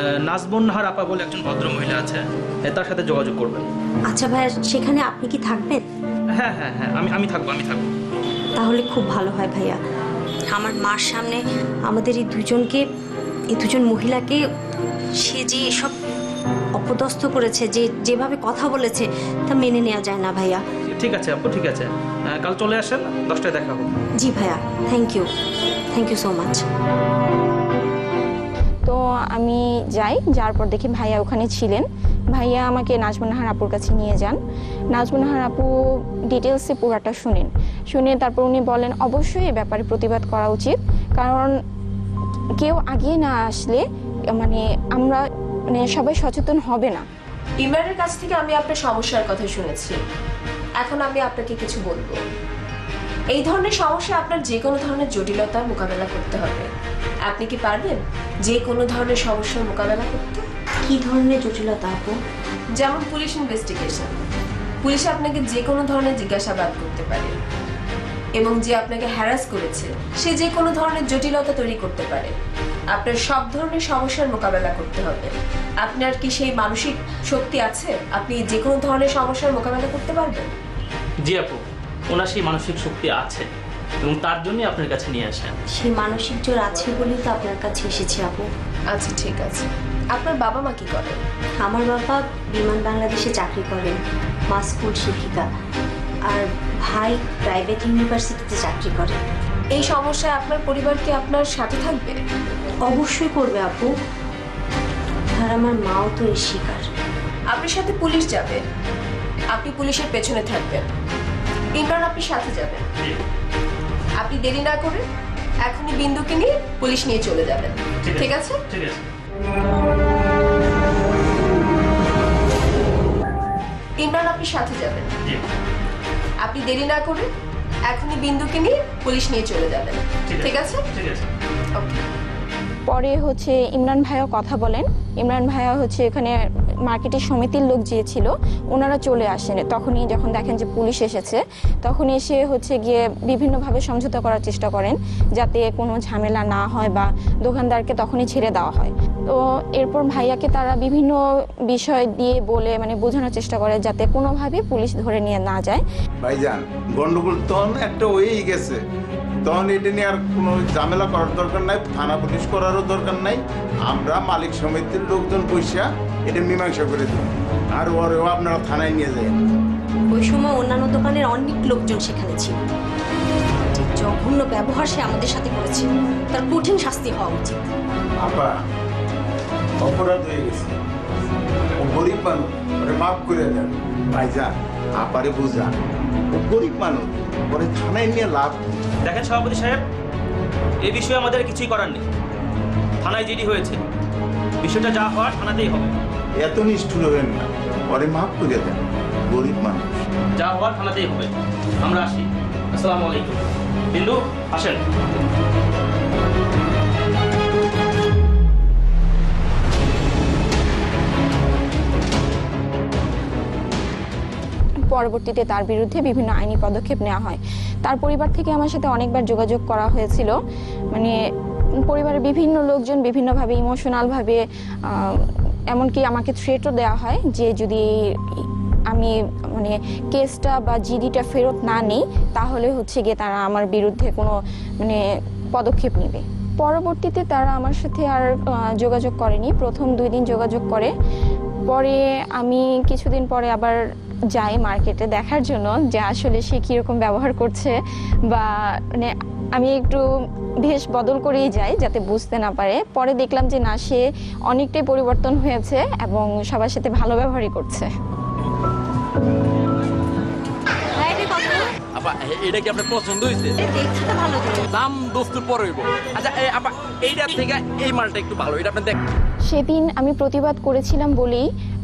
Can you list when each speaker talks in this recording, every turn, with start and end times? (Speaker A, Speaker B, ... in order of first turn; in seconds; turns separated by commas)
Speaker A: 0.2-3.7, Speaker B: 4.1-5.8, Speaker A: 6.4-7.9, Speaker B: 8.6-9.8, Speaker B: 10.5-12.8, Speaker B: 13.5-14.4, Speaker B: 15.2-15.9, Speaker B: 16.8-20.6, Speaker A: 20.9-23.9, Speaker B: 24.2-25.3, Speaker B: 25.9-26.6, Speaker C: 28.9-34.4, Speaker C: 34.9-41.5, Speaker C: 42.6-47.0, Speaker D: 47.6-50.0, Speaker D: 50.8-52.2, Speaker D: 53.3-56.7, Speaker D: 57.3-60.5, Speaker B: 60.9-62.2, Speaker D: 62.8-64.2, Speaker D: 64.8-67.3, Speaker D: 68.4-72.3, Speaker D: 72.9-80.5, Speaker A: 81.2-83.5, Speaker A: 84.0-85.5, Speaker B: 85.7-88.5, Speaker D: 88.9-91.2, Speaker B: 91.6-94.0, Speaker B: 94.5-95.5, Speaker B: 96.3-99.2, Speaker D: 99.7-102.2, Speaker B: 102.9-103.9, Speaker B: 105.3-106.9, Speaker D: 107.5-108.6, Speaker D: 109.5-110.9, Speaker D: 111.8-112.8, Speaker D: 114.2-115.0, Speaker D: 115.7-118.6, Speaker A: 118.0-119.0, Speaker D: 124.0-125.1, Speaker D: 126.4-127.3, Speaker D: 127.9-130.8, Speaker A: 130.3-131.3, Speaker D: 131.8-132.0, Speaker C: 132.9-155.8, Speaker E: 156.2-158.8, Speaker E: 159.4-169.4, Speaker B: 170.1-172.6, Speaker B: 173.7-177.7, Speaker E: 178.2-178.6, Speaker E: 179.8-180.7, Speaker E: 181.8-185.8, Speaker E: 186.3-188.6, Speaker A: 189.1-189.8, Speaker A: 190.8-192.0, Speaker A: 193.0-193.8, Speaker A: 194.6-195.9, Speaker E: 196.4-200.1, Speaker A: 200.4-204.8, Speaker C: 214.9-220.4, Speaker C: 221.8-235.0, Speaker C: 235.6-240.9, Speaker C: 241.7-243.8, Speaker C: 244.3-247.8, Speaker C: 248.3-250.0, Speaker C: 250.6-257.9, Speaker B: 261.1-261.6, Speaker F: 262.0-263.6, Speaker B: 263.8-264.6, Speaker F: 264.7-269.0, Speaker C: 269.5-271.4